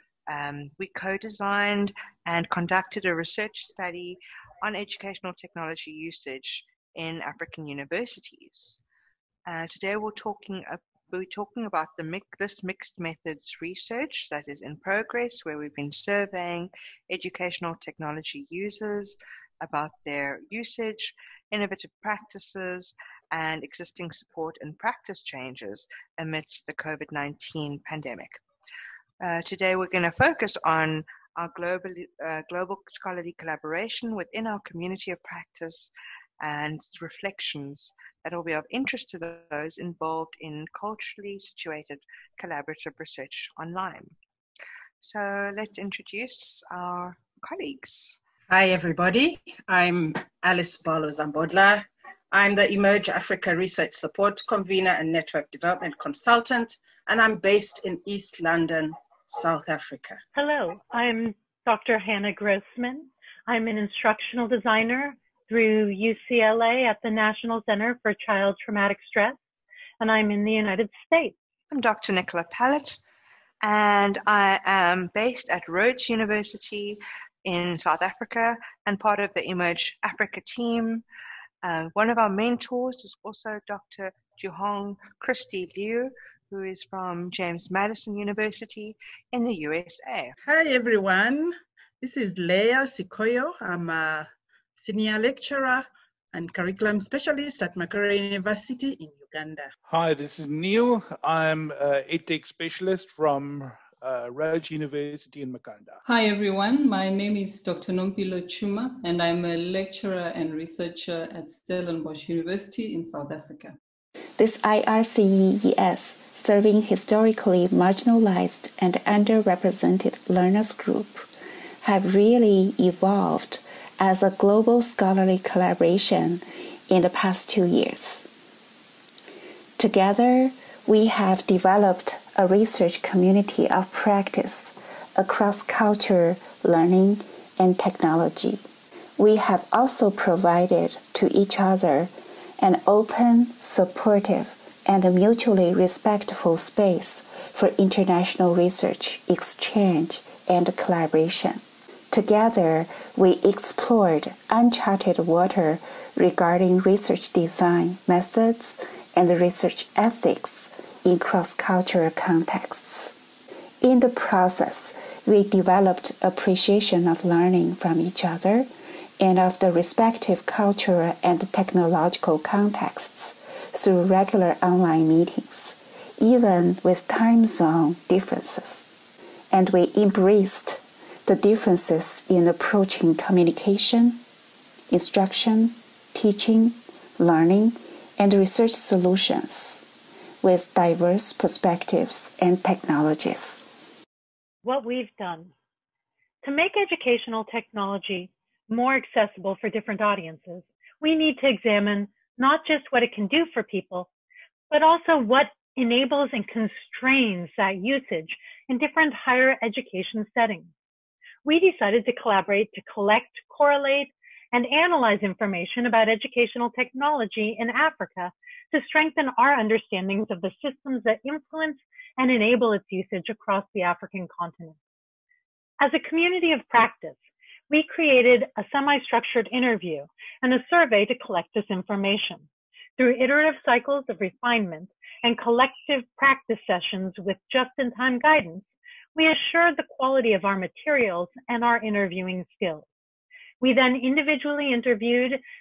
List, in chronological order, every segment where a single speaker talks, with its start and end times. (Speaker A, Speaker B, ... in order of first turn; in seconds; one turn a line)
Speaker A: 0.3-8.8
Speaker A: 9.5-28.4
Speaker A: 29.2-35.9
Speaker A: 36.4-44.1
Speaker A: 45.0-48.2
Speaker B: 48.5-60.2
Speaker C: 60.4-69.4
Speaker C: 70.0-71.3
Speaker A: 71.7-73.0
Speaker A: 73.6-81.0
Speaker A: 81.6-90.3
Speaker D: 90.5-91.4
Speaker B: 90.9-91.4
Speaker D: 92.0-94.2
Speaker B: 92.5-94.0
Speaker D: 94.8-95.7
Speaker B: 94.8-95.8
Speaker D: 96.3-99.6
Speaker B: 96.4-99.7
Speaker E: 99.9-106.0
Speaker F: 106.0-113.8
Speaker G: 114.4-121.3
Speaker G: 121.8-128.3
Speaker G: 129.8-138.6
Speaker G: 139.2-151.6
Speaker G: 152.1-163.1
Speaker G: 163.8-168.7
Speaker G: 169.2-178.8
Speaker G: 179.5-184.2
Speaker G: 184.9-189.8
Speaker G: 190.4-193.6
Speaker C: 194.6-195.5
Speaker C: 196.4-204.1
Speaker C: 204.7-210.7
Speaker C: 211.4-224.8
Speaker C: 225.8-227.2
Speaker C: 227.7-232.5
Speaker C: 233.0-242.9
Speaker C: 243.6-245.4